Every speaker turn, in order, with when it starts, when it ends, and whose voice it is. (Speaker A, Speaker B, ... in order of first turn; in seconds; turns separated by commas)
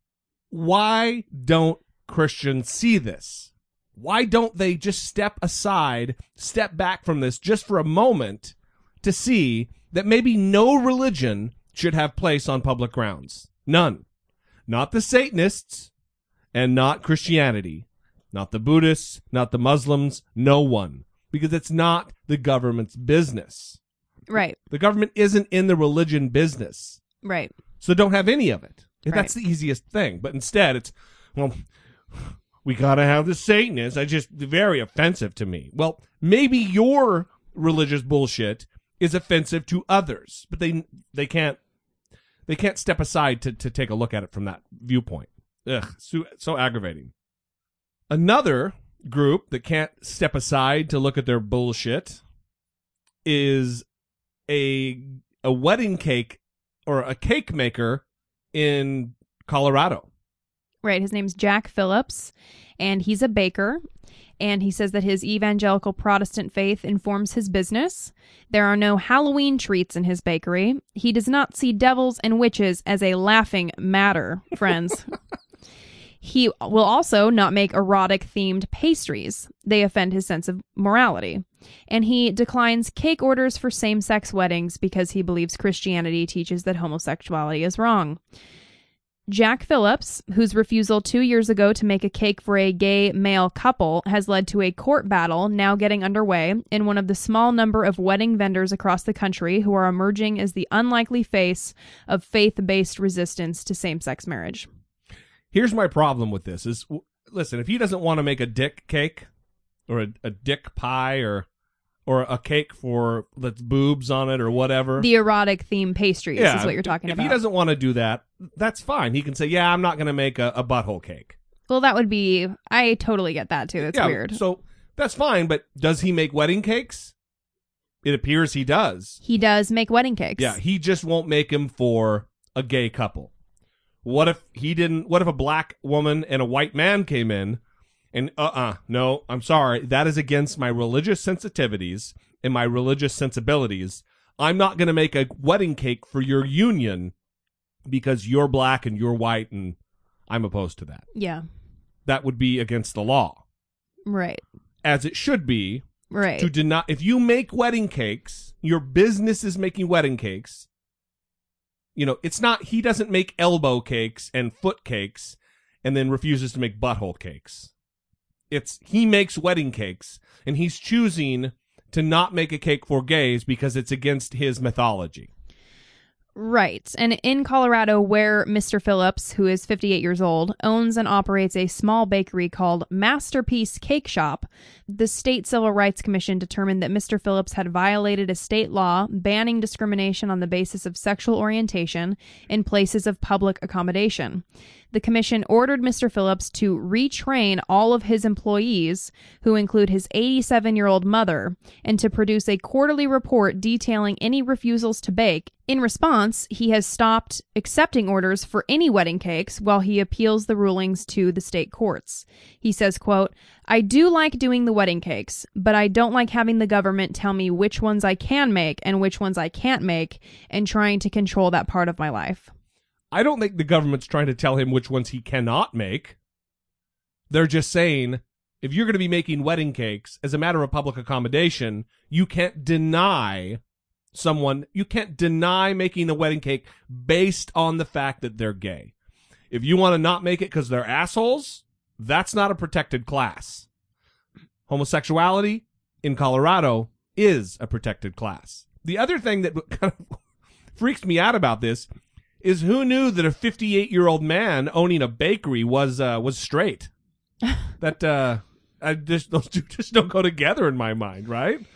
Speaker A: 0.5-14.0, Speaker A: 14.7-15.9, Speaker A: 16.5-23.8, Speaker B: 24.3-24.6, Speaker A: 24.7-27.0, Speaker B: 27.2-27.5, Speaker A: 27.8-41.6, Speaker A: 42.5-47.1, Speaker A: 48.1-52.2, Speaker A: 53.2-53.8, Speaker A: 54.5-60.1, Speaker B: 60.8-63.8, Speaker B: 64.4-75.1, Speaker B: 76.2-88.2, Speaker B: 89.3-104.7, Speaker A: 105.5-109.3, Speaker A: 109.9-111.5, Speaker A: 112.0-115.1, Speaker B: 115.0-117.4, Speaker A: 116.3-121.4, Speaker B: 121.7-124.4, Speaker A: 123.8-127.1, Speaker A: 128.0-129.2, Speaker B: 129.2-130.6, Speaker A: 130.4-133.3, Speaker A: 134.0-137.6, Speaker A: 138.1-147.1, Speaker A: 147.8-149.8, Speaker A: 150.3-151.1, Speaker B: 151.1-151.4, Speaker A: 152.1-153.4, Speaker B: 154.1-154.4, Speaker A: 154.8-160.7, Speaker B: 156.1-156.5, Speaker A: 161.9-167.7, Speaker A: 168.5-175.3, Speaker B: 176.3-222.5, Speaker A: 223.1-226.2, Speaker A: 227.3-233.6, Speaker A: 234.1-238.9, Speaker A: 239.5-243.7, Speaker A: 244.7-250.2, Speaker A: 250.7-251.9, Speaker A: 252.4-256.9, Speaker A: 257.8-261.6